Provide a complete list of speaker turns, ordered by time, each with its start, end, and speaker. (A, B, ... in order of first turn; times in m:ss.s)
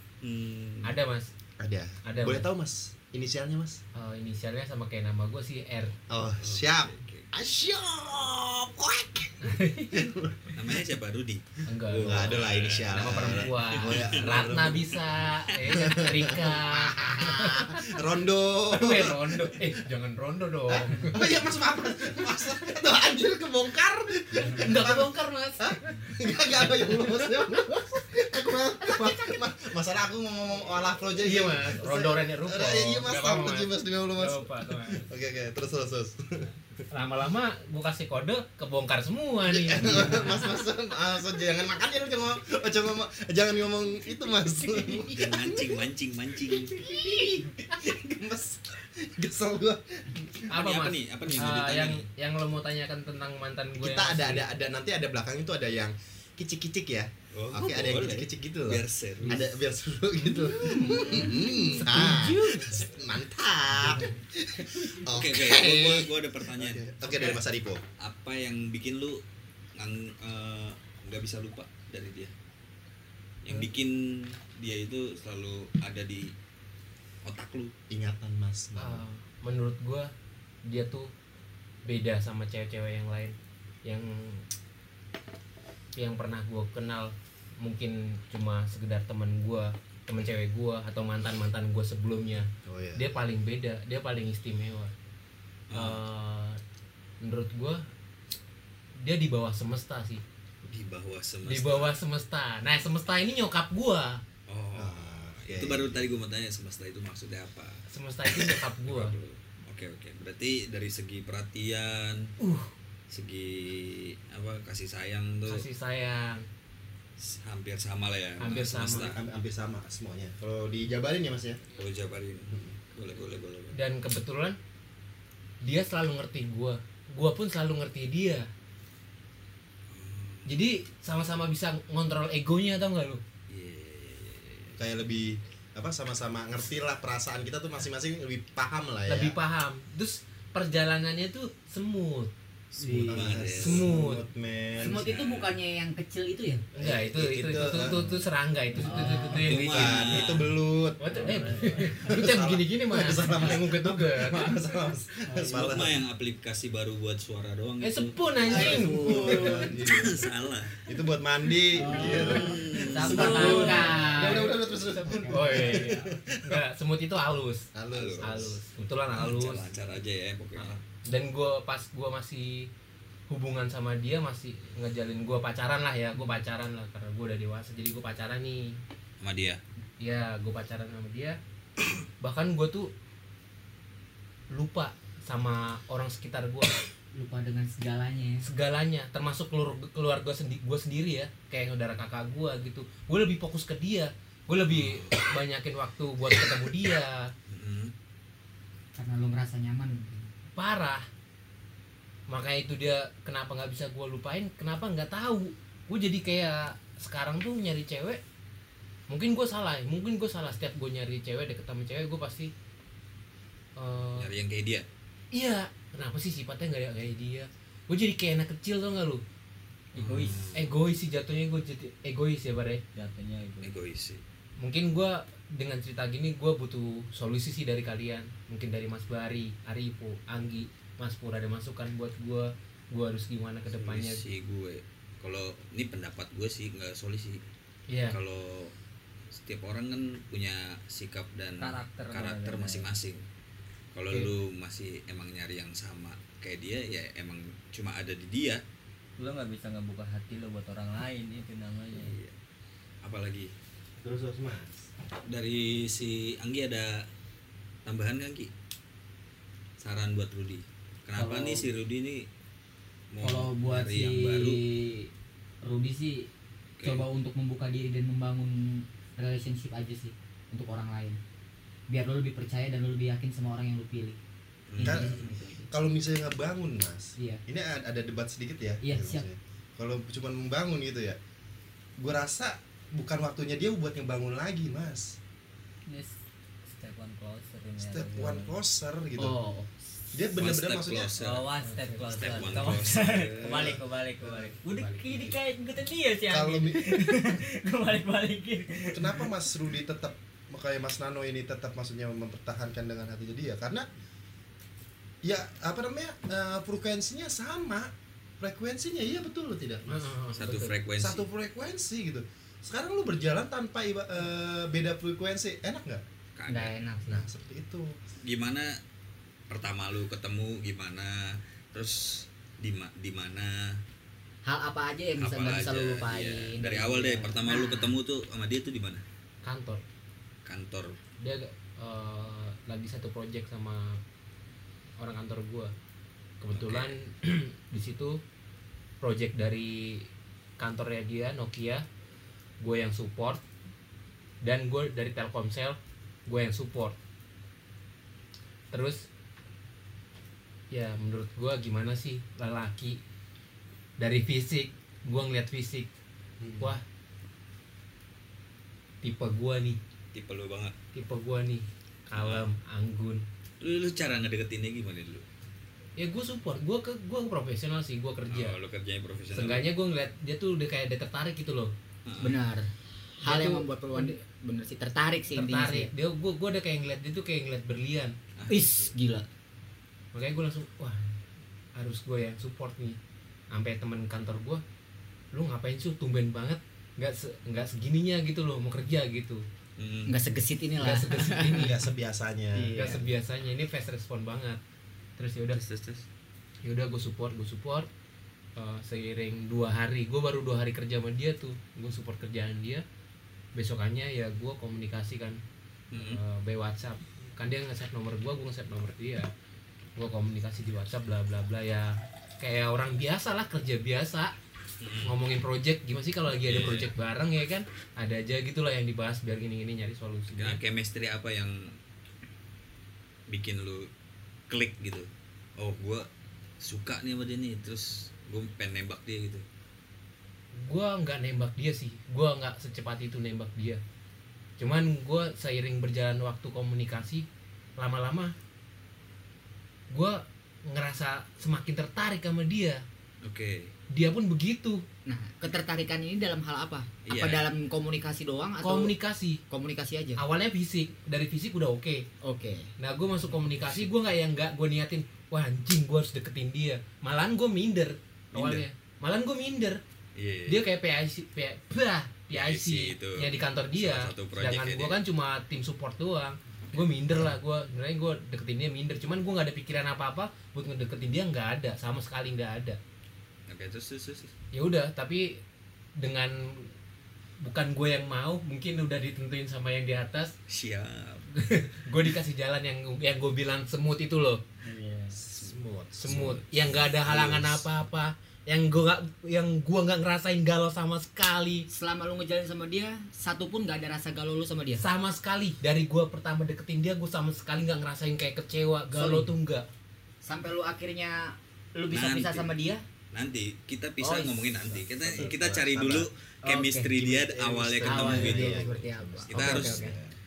0:00.2-0:01.0 A
0:00.8-0:01.3 B
0:01.6-0:03.8 C
0:02.0-0:02.5 B
0:04.0-0:06.0 B
0:06.1-0:10.8 C
0:06.4-0:07.3 A
0:09.4-0:10.0 B
0:10.5-0:15.6 A
0:11.7-0:12.4 B
0:11.9-0:14.9 C
0:12.9-0:18.0 B
0:15.7-0:19.8 C
0:18.7-0:21.2 B
0:20.7-0:36.5 C
0:24.4-0:25.8 B
0:26.6-0:27.6 B
0:31.2-0:35.0 B
0:36.9-0:40.6 B
0:39.5-0:45.8 C
0:45.1-0:46.8 A
0:46.5-0:50.4 C
0:50.5-0:54.5 B
0:50.5-0:52.1 A
0:53.8-1:07.8 C
0:57.3-0:59.4 A
1:00.3-1:02.9 B
1:00.8-1:01.0 A
1:05.1-1:07.4 A
1:08.0-1:09.2 A
1:09.8-1:12.3 A
1:13.4-1:16.3 A
1:17.2-1:17.7 A
1:17.9-1:19.0 C
1:18.8-1:20.1 B
1:20.6-1:21.1 B
1:21.9-1:23.3 B
1:23.8-1:24.4 B
1:26.0-1:34.9 B
1:32.6-1:33.1 C
1:35.7-1:36.0 A
1:35.7-1:36.6 B
1:37.2-1:37.8 B
1:39.0-1:40.2 B
1:40.6-1:42.0 A
1:41.4-1:44.2 B
1:44.5-1:52.3 A
1:44.8-1:46.1 C
1:47.9-1:49.2 B
1:52.4-1:52.7 B
1:53.1-1:55.6 A
1:55.5-1:56.5 B
1:57.2-1:59.2 A
1:58.4-1:59.1 B
1:58.9-2:01.6 C
2:01.8-2:03.8 A
2:03.7-2:04.6 B
2:05.6-2:08.5 B
2:09.9-2:10.6 A
2:10.5-2:13.2 B
2:13.5-2:14.8 A
2:14.8-2:19.4 C
2:19.1-2:24.2 B
2:22.7-2:23.9 A
2:23.0-2:25.1 C
2:24.8-2:26.6 D
2:24.9-2:25.6 A
2:26.8-2:28.1 C
2:26.8-2:30.4 B
2:28.8-2:29.6 D
2:29.1-2:29.3 E
2:29.3-2:30.5 A
2:29.6-2:36.0 C
2:31.0-2:34.6 B
2:31.1-2:31.9 E
2:35.4-2:40.8 A
2:37.8-2:39.7 B
2:38.5-2:46.6 C
2:38.6-2:38.9 D
2:41.8-2:44.5 D
2:41.9-2:43.7 A
2:42.9-2:44.5 B
2:43.0-2:43.6 E
2:45.2-2:47.7 B
2:47.7-2:48.6 C
2:47.9-2:48.5 A
2:48.2-2:49.6 B
2:49.1-2:50.8 A
2:51.1-2:52.7 B
2:53.3-2:58.8 B
2:59.2-2:59.6 A
3:00.0-3:01.4 B
3:02.2-3:02.9 B
3:04.5-3:06.8 B
3:07.1-3:08.4 D
3:08.4-3:17.3 B
3:14.7-3:15.2 A
3:17.5-3:17.9 A
3:19.0-3:20.3 D
3:20.6-3:21.1 B
3:22.3-3:28.2 B
3:29.1-3:32.5 B
3:33.8-3:34.3 B
3:34.2-3:34.9 A
3:35.3-3:39.2 B
3:39.9-3:40.6 E
3:40.0-3:40.7 A
3:40.5-3:42.8 B
3:43.0-3:43.8 E
3:43.6-3:44.2 A
3:44.6-3:54.2 B
3:53.7-3:57.4 A
3:57.9-3:58.2 B
3:58.1-3:58.7 A
3:59.3-4:03.2 A
4:01.6-4:02.9 E
4:03.9-4:08.6 A
4:09.2-4:12.2 E
4:11.9-4:12.3 A
4:13.0-4:13.5 A
4:14.0-4:14.8 C
4:15.3-4:17.1 A
4:17.8-4:18.5 A
4:19.8-4:22.3 A
4:21.2-4:21.7 D
4:23.1-4:24.6 A
4:23.2-4:25.1 D
4:25.6-4:26.3 D
4:26.8-4:27.0 A
4:26.8-4:31.2 D
4:31.9-4:34.2 D
4:34.7-4:35.4 A
4:34.8-4:35.7 D
4:34.8-4:41.2 C
4:38.8-4:39.3 D
4:42.0-4:45.2 C
4:45.9-4:48.6 E
4:47.8-4:49.4 C
4:49.2-4:49.7 D
4:50.1-4:51.1 C
4:50.4-4:51.5 A
4:51.2-4:59.3 E
4:51.6-4:52.7 B
4:52.1-4:53.7 A
4:53.4-4:54.5 C
4:56.3-4:57.2 C
4:58.9-5:03.9 C
5:05.2-5:10.1 C
5:09.9-5:10.7 B
5:10.4-5:11.3 A
5:11.0-5:16.0 C
5:16.4-5:16.8 A
5:16.5-5:17.2 D
5:17.1-5:18.0 C
5:18.2-5:18.8 A
5:19.5-5:23.8 A
5:24.4-5:28.0 D
5:25.2-5:29.0 A
5:29.4-5:29.8 B
5:30.4-5:31.0 A
5:31.2-5:34.0 B
5:35.0-5:35.7 B
5:36.4-5:38.2 B
5:36.6-5:36.9 A
5:39.0-5:41.8 B
5:42.6-5:43.4 B
5:44.4-5:47.0 B
5:48.7-5:49.1 B
5:50.7-5:53.0 B
5:54.0-5:55.9 B
5:56.4-5:56.7 C
5:59.0-5:59.8 B
6:00.1-6:00.8 A
6:00.9-6:03.2 B
6:02.1-6:02.5 A
6:03.6-6:05.2 A
6:06.0-6:08.6 B
6:08.3-6:09.7 A
6:09.3-6:11.7 B
6:12.0-6:12.4 A
6:12.2-6:15.9 D
6:13.2-6:14.2 B
6:15.3-6:18.2 B
6:18.4-6:18.9 A
6:18.5-6:19.3 D
6:20.1-6:21.0 B
6:21.8-6:23.0 B
6:23.5-6:24.6 B
6:25.3-6:29.4 B
6:29.8-6:30.2 A
6:30.1-6:31.8 D
6:30.8-6:31.8 B
6:31.5-6:32.8 C
6:32.6-6:33.1 D
6:32.8-6:34.6 B
6:35.2-6:35.6 B
6:35.6-6:36.1 A
6:36.6-6:37.9 B
6:38.6-6:42.8 B
6:43.6-6:45.4 B
6:45.9-6:46.2 A
6:46.0-6:49.3 B
6:50.0-6:54.3 B
6:54.8-6:55.1 A
6:55.0-7:00.6 B
6:56.4-6:56.9 A
7:00.3-7:01.8 A
7:03.3-7:03.9 A
7:04.5-7:06.1 A
7:06.6-7:09.4 A
7:10.5-7:13.8 B
7:14.6-7:17.3 B
7:17.8-7:18.3 B
7:19.9-7:22.8 B
7:23.2-7:23.7 A
7:23.9-7:24.8 B
7:25.1-7:28.9 D
7:27.1-7:27.5 A
7:28.6-7:29.4 B
7:29.5-7:30.2 D
7:30.2-7:32.1 B
7:32.2-7:32.7 D
7:32.8-7:39.8 B
7:38.3-7:38.6 A
7:40.2-7:40.6 A
7:40.5-7:52.8 B
7:42.3-7:45.0 A
7:53.5-7:54.3 A
7:54.5-7:55.4 B
7:56.0-7:56.7 B
7:57.4-8:00.3 B
8:00.5-8:01.3 A
8:01.4-8:04.4 B
8:04.6-8:05.2 E
8:05.1-8:06.4 C
8:06.0-8:11.7 B
8:06.0-8:07.6 A
8:11.7-8:14.8 D
8:14.8-8:19.7 B
8:18.9-8:19.3 D
8:20.2-8:22.8 D
8:21.9-8:22.5 A
8:23.1-8:28.7 A
8:24.0-8:25.3 D
8:24.7-8:26.1 C
8:26.4-8:27.0 D
8:26.9-8:30.1 C
8:27.8-8:30.0 D
8:29.3-8:30.0 A